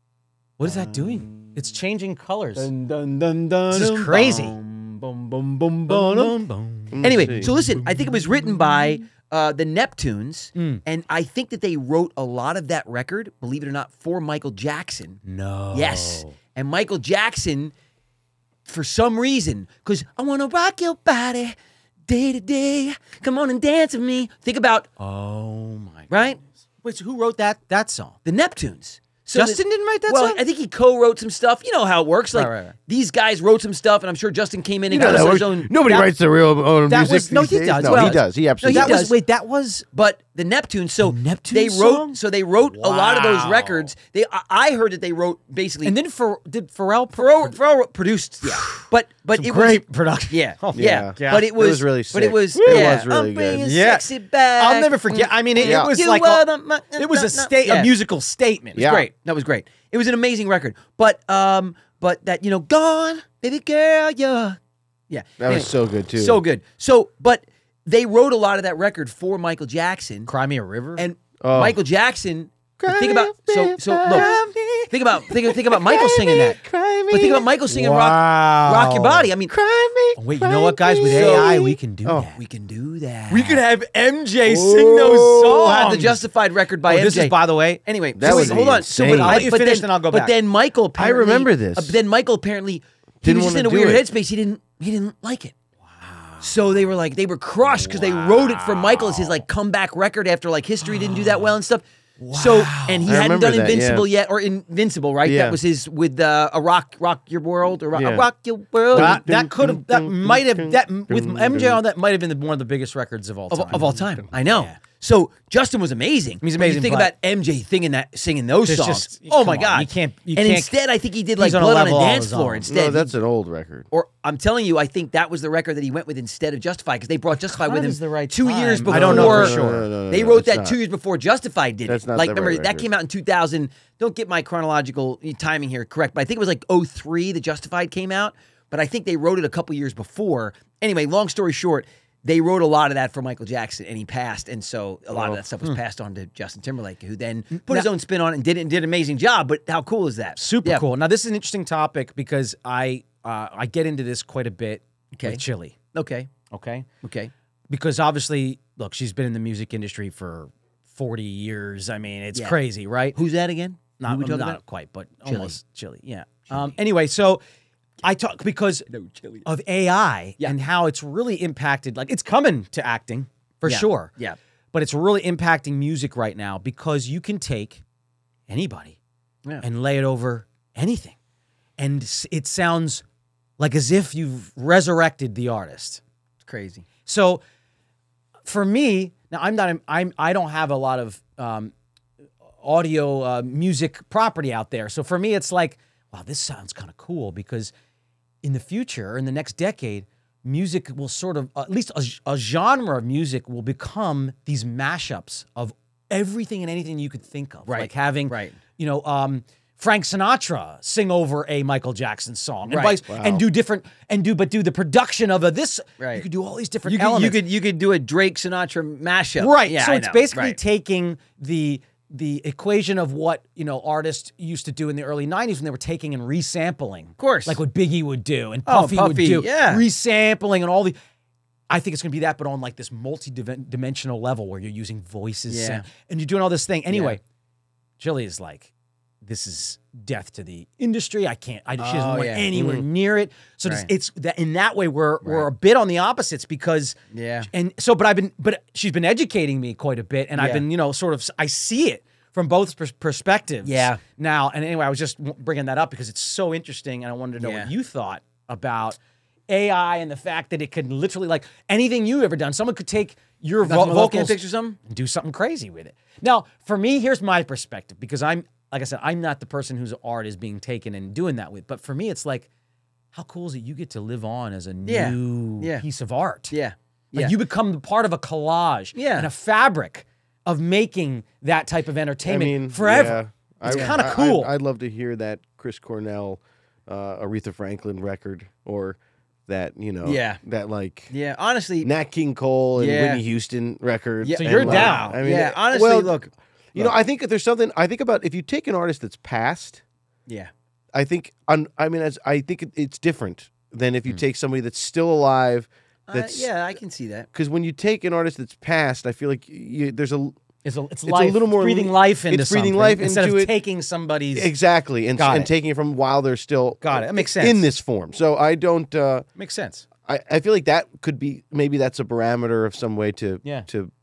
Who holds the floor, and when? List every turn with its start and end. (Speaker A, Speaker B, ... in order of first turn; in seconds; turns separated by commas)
Speaker A: 0.6-2.7, Speaker B: 0.6-1.6, Speaker B: 2.5-6.3, Speaker A: 3.7-4.5, Speaker A: 5.9-8.0, Speaker C: 6.9-7.5, Speaker B: 7.0-17.7, Speaker A: 10.6-10.8, Speaker A: 15.3-16.4, Speaker B: 18.7-21.6, Speaker B: 22.1-24.9, Speaker A: 25.0-28.1, Speaker B: 26.1-26.4, Speaker B: 28.2-35.7, Speaker A: 29.3-30.4, Speaker A: 32.3-32.8, Speaker C: 34.9-39.0, Speaker A: 35.8-36.1, Speaker A: 36.9-39.9, Speaker B: 37.8-39.1, Speaker B: 39.9-46.0, Speaker A: 41.0-43.9, Speaker A: 45.8-47.5, Speaker B: 47.2-57.9, Speaker A: 48.4-51.5, Speaker C: 50.8-53.6, Speaker A: 52.5-53.0, Speaker A: 53.6-54.1, Speaker A: 54.6-58.9, Speaker C: 55.6-55.9, Speaker C: 58.8-59.1, Speaker B: 58.8-64.6, Speaker B: 65.1-70.3, Speaker C: 65.4-66.4, Speaker A: 70.3-71.0, Speaker B: 71.0-74.3, Speaker C: 71.4-71.8, Speaker C: 72.8-77.5, Speaker A: 74.1-74.5, Speaker B: 74.9-79.5, Speaker A: 77.7-79.3, Speaker C: 79.5-82.3, Speaker A: 80.2-82.4, Speaker B: 81.1-81.7, Speaker B: 82.4-83.6, Speaker A: 83.3-86.2, Speaker C: 84.5-85.3, Speaker B: 85.2-95.5, Speaker A: 86.8-90.3, Speaker C: 88.2-89.5, Speaker C: 91.0-92.0, Speaker C: 93.2-94.1, Speaker A: 95.8-96.5, Speaker B: 96.4-109.2, Speaker A: 97.8-99.3, Speaker A: 100.9-101.5, Speaker A: 102.2-103.2, Speaker C: 103.0-104.1, Speaker C: 105.2-105.6, Speaker C: 107.9-108.3, Speaker C: 108.9-111.8, Speaker A: 108.9-114.7, Speaker B: 113.5-123.1, Speaker C: 113.7-114.2, Speaker A: 116.4-117.1, Speaker A: 118.7-120.7, Speaker A: 121.4-122.7, Speaker C: 122.7-123.9, Speaker B: 123.9-150.8, Speaker A: 127.4-129.9, Speaker C: 128.9-130.8, Speaker C: 131.9-132.9, Speaker A: 147.5-147.9, Speaker A: 150.4-155.8, Speaker B: 155.1-156.3, Speaker A: 156.5-156.9, Speaker B: 157.0-157.3, Speaker A: 157.7-163.2, Speaker B: 163.2-164.6, Speaker A: 164.0-167.4, Speaker B: 165.3-165.6, Speaker B: 166.5-166.8, Speaker A: 168.0-168.9, Speaker B: 168.9-169.5, Speaker A: 169.4-174.1, Speaker B: 173.7-174.4, Speaker A: 174.7-177.8, Speaker A: 178.5-179.0, Speaker A: 179.6-181.2, Speaker A: 181.8-183.0, Speaker A: 183.6-186.0, Speaker B: 186.5-186.9, Speaker A: 187.1-187.4, Speaker A: 188.4-191.7, Speaker A: 192.6-197.7, Speaker A: 198.4-217.4, Speaker B: 207.7-208.6, Speaker B: 212.7-213.0, Speaker C: 213.1-213.4, Speaker B: 216.0-216.3, Speaker B: 216.9-220.6, Speaker A: 219.4-231.0, Speaker B: 227.2-227.6, Speaker B: 228.7-229.8, Speaker A: 231.7-237.2, Speaker B: 235.5-235.8, Speaker B: 236.9-237.2, Speaker A: 238.0-238.7, Speaker A: 239.2-247.0, Speaker B: 241.8-242.6, Speaker C: 242.6-242.8, Speaker B: 245.2-245.5, Speaker B: 247.1-247.5, Speaker A: 247.5-259.0, Speaker B: 250.4-250.6, Speaker B: 253.6-254.0, Speaker B: 257.4-257.7, Speaker A: 259.5-272.5, Speaker B: 263.6-264.8, Speaker A: 273.1-276.5, Speaker B: 274.9-275.8, Speaker B: 276.5-277.4, Speaker A: 277.1-284.5, Speaker B: 278.9-279.3, Speaker C: 282.2-291.1, Speaker B: 283.7-284.0, Speaker B: 290.0-290.4, Speaker B: 291.1-291.9, Speaker C: 291.8-296.2, Speaker B: 292.8-293.2, Speaker B: 294.2-296.9, Speaker A: 294.4-295.2, Speaker C: 296.7-299.8, Speaker C: 300.9-306.5, Speaker B: 306.1-307.3, Speaker C: 307.3-310.4, Speaker A: 310.6-314.5, Speaker C: 311.1-313.5, Speaker C: 314.3-319.2, Speaker A: 315.2-315.5, Speaker A: 316.8-317.7, Speaker A: 319.4-319.9, Speaker C: 320.1-323.9